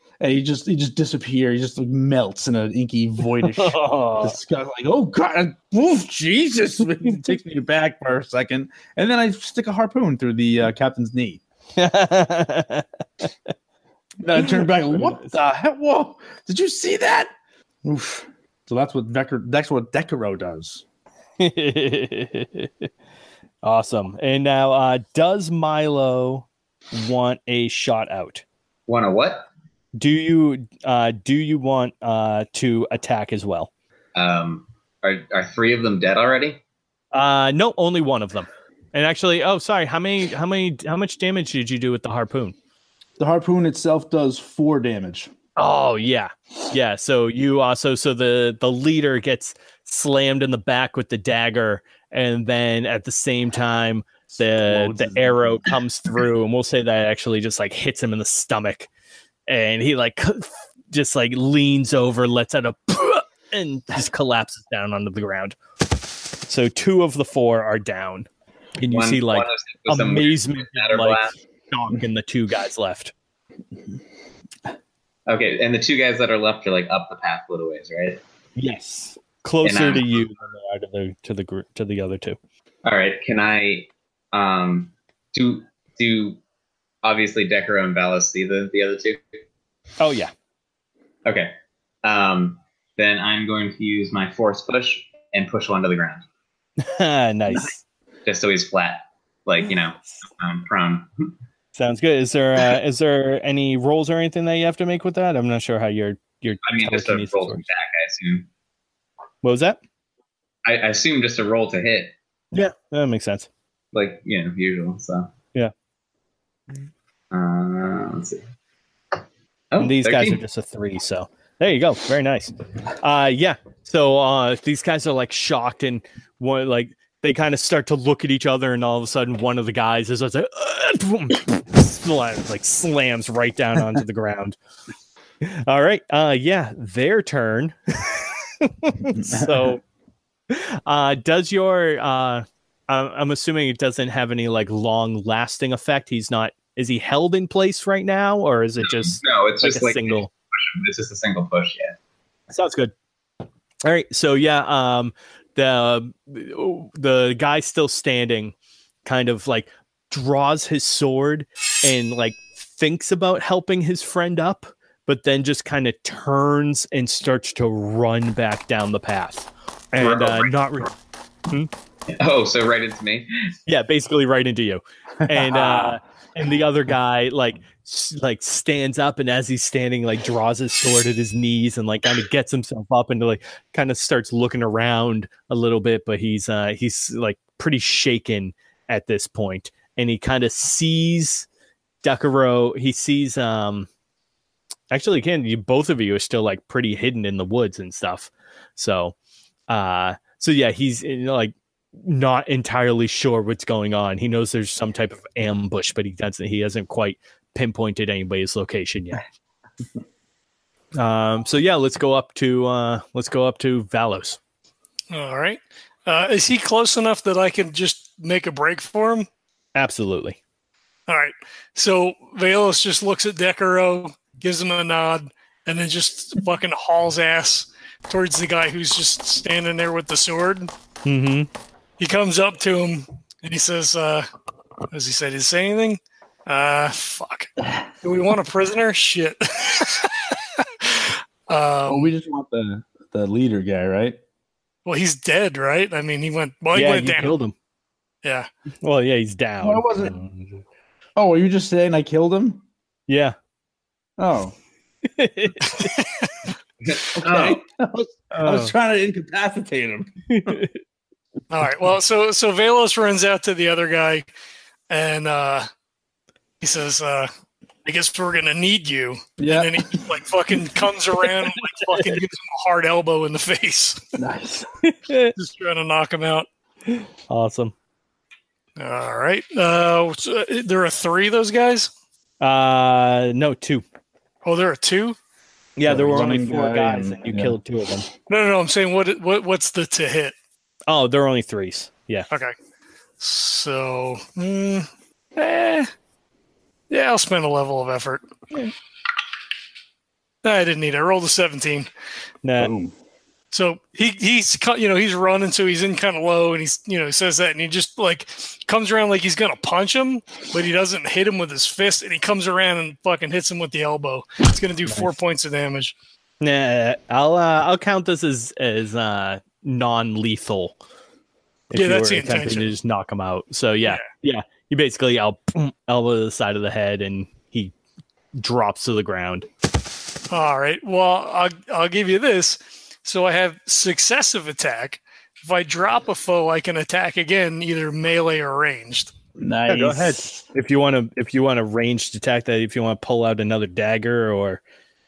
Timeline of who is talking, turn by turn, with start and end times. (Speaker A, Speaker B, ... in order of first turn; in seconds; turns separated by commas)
Speaker A: 0.2-11.4, Speaker B: 3.4-4.4, Speaker B: 11.8-13.3, Speaker A: 14.2-17.3, Speaker B: 14.4-15.3, Speaker A: 17.8-20.8, Speaker B: 21.4-22.9, Speaker B: 23.6-28.4, Speaker C: 28.9-29.5, Speaker B: 29.9-33.7, Speaker C: 34.2-36.6, Speaker B: 37.1-42.5, Speaker A: 43.2-45.3, Speaker B: 45.6-58.9, Speaker A: 54.6-55.7, Speaker B: 59.5-65.6, Speaker B: 66.5-73.1, Speaker C: 68.8-71.3, Speaker C: 75.3-78.2, Speaker B: 78.6-82.4, Speaker C: 79.6-80.3, Speaker C: 82.8-86.4, Speaker C: 87.0-89.2, Speaker B: 90.0-90.3, Speaker C: 91.2-91.5, Speaker C: 92.0-96.2, Speaker B: 96.8-97.8, Speaker C: 98.3-101.3, Speaker B: 101.8-107.7, Speaker C: 106.6-108.5, Speaker B: 109.4-109.8, Speaker C: 110.7-112.2, Speaker B: 112.5-113.5, Speaker C: 113.9-115.3, Speaker C: 117.3-118.4, Speaker C: 119.7-120.4, Speaker B: 119.8-134.6, Speaker B: 135.4-139.8, Speaker A: 139.1-139.8, Speaker B: 140.5-150.3, Speaker C: 148.8-152.0, Speaker B: 152.5-152.9, Speaker B: 153.8-158.5, Speaker B: 159.1-170.9, Speaker C: 170.0-170.5, Speaker C: 172.1-173.3, Speaker B: 173.7-191.5, Speaker A: 175.3-176.0, Speaker B: 192.0-193.9, Speaker B: 194.9-199.1, Speaker B: 199.7-209.2, Speaker B: 210.9-214.4, Speaker D: 215.1-219.3, Speaker B: 219.8-220.4, Speaker D: 221.1-230.7, Speaker B: 231.1-231.5, Speaker D: 232.0-234.3, Speaker D: 234.9-237.5, Speaker D: 238.0-242.1, Speaker A: 241.9-244.2, Speaker D: 244.9-247.4, Speaker B: 246.8-247.5, Speaker B: 248.8-250.6, Speaker A: 249.6-250.1, Speaker A: 251.2-252.6, Speaker B: 253.1-253.3, Speaker A: 254.2-254.6, Speaker B: 255.1-255.9, Speaker D: 255.8-256.3, Speaker C: 256.9-257.6, Speaker A: 257.1-260.6, Speaker B: 258.3-258.7, Speaker B: 260.3-260.7, Speaker D: 261.5-264.3, Speaker D: 264.9-265.7, Speaker D: 266.6-267.3, Speaker D: 267.9-274.0, Speaker A: 269.4-270.0, Speaker B: 271.8-272.1, Speaker A: 274.2-274.7, Speaker B: 274.8-275.4, Speaker D: 275.4-276.5, Speaker B: 276.9-277.7, Speaker D: 278.8-281.9, Speaker B: 282.4-283.8, Speaker D: 284.4-285.2, Speaker B: 285.8-288.1, Speaker A: 285.9-287.6, Speaker D: 288.3-290.3, Speaker B: 290.9-292.3, Speaker D: 293.2-295.9, Speaker D: 296.9-298.2, Speaker D: 300.4-301.9, Speaker B: 302.4-302.7, Speaker A: 302.6-302.9, Speaker D: 303.5-315.9, Speaker B: 314.9-315.2, Speaker B: 316.4-320.8, Speaker B: 321.7-327.7, Speaker D: 321.7-322.7, Speaker B: 328.4-329.5, Speaker D: 330.3-339.1, Speaker A: 339.4-340.4, Speaker B: 339.7-344.6